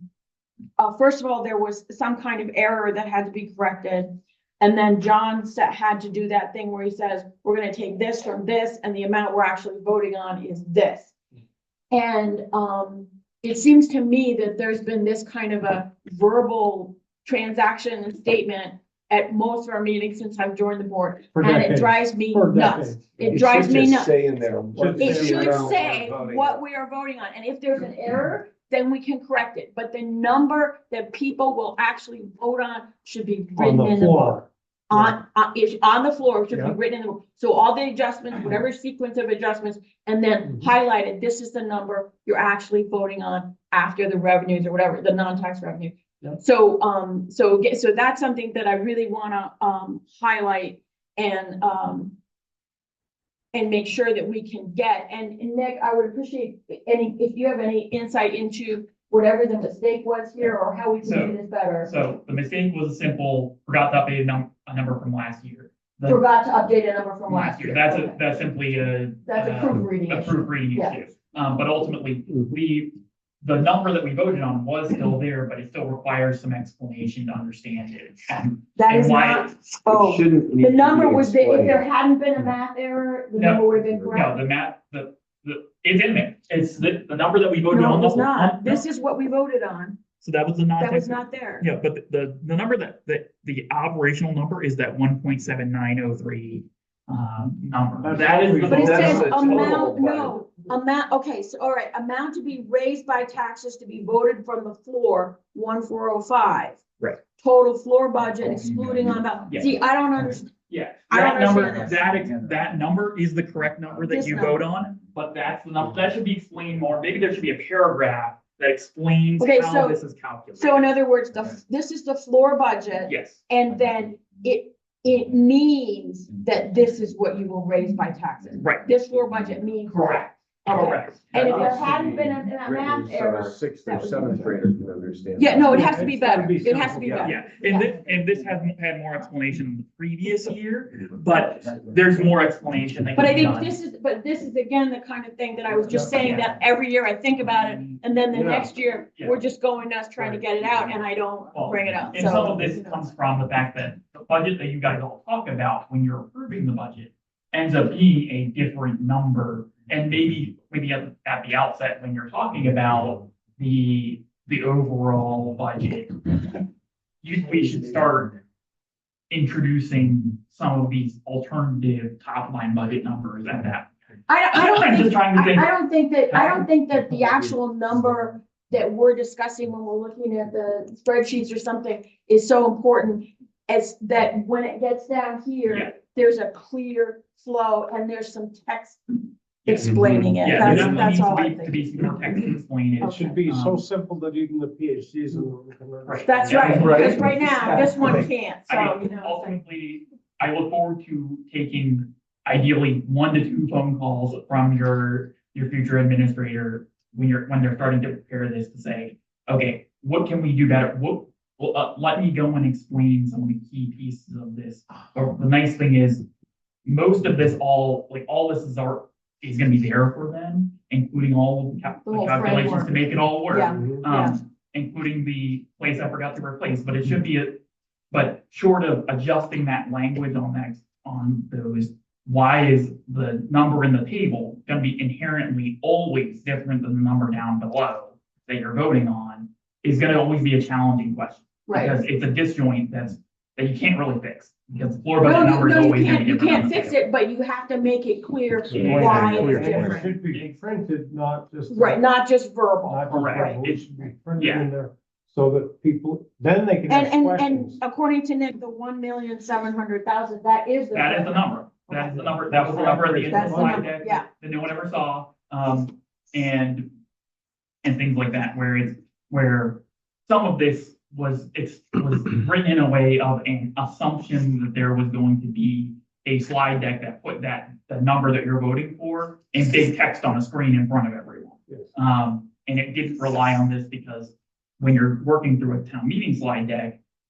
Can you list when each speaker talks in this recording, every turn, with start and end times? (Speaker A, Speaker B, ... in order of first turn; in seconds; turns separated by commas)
Speaker A: 0.8-11.1, Speaker A: 11.9-24.1, Speaker B: 21.4-23.4, Speaker C: 23.2-26.6, Speaker B: 24.7-25.8, Speaker A: 25.0-52.2, Speaker B: 33.6-35.2, Speaker B: 40.5-40.7, Speaker A: 53.5-61.9, Speaker D: 61.0-66.2, Speaker A: 66.1-68.2, Speaker D: 67.3-79.6, Speaker A: 69.3-71.0, Speaker A: 78.8-84.4, Speaker C: 79.8-81.8, Speaker D: 83.4-88.8, Speaker A: 87.7-90.0, Speaker D: 90.2-99.8, Speaker A: 90.8-91.7, Speaker B: 98.0-99.1, Speaker C: 98.1-100.5, Speaker A: 98.6-110.5, Speaker D: 110.7-120.9, Speaker A: 111.1-112.1, Speaker A: 114.1-114.6, Speaker A: 119.4-120.0, Speaker A: 120.5-134.6, Speaker D: 123.1-123.4, Speaker D: 128.6-128.9, Speaker D: 130.0-132.1, Speaker C: 131.3-136.0, Speaker A: 135.4-137.9, Speaker B: 135.5-137.3, Speaker D: 137.2-143.7, Speaker A: 143.2-152.8, Speaker D: 145.9-146.4, Speaker B: 148.3-148.7, Speaker D: 151.5-166.6, Speaker D: 167.2-168.4, Speaker D: 169.3-173.9, Speaker A: 174.3-189.0, Speaker D: 174.5-175.7, Speaker D: 176.3-176.7, Speaker D: 185.7-185.9, Speaker A: 189.7-191.8, Speaker D: 190.4-193.8, Speaker A: 193.0-193.4, Speaker B: 193.0-197.2, Speaker D: 196.0-197.9, Speaker A: 196.3-199.6, Speaker C: 196.6-198.2, Speaker D: 198.7-216.2, Speaker D: 216.8-247.0, Speaker A: 222.1-224.4, Speaker A: 241.7-242.0, Speaker A: 245.2-250.2, Speaker B: 248.7-252.0, Speaker D: 248.8-250.5, Speaker C: 248.8-250.0, Speaker A: 251.7-253.6, Speaker B: 252.9-257.8, Speaker D: 253.1-254.7, Speaker A: 256.9-262.3, Speaker D: 260.9-266.9, Speaker B: 262.1-263.9, Speaker A: 263.3-264.3, Speaker D: 267.8-287.0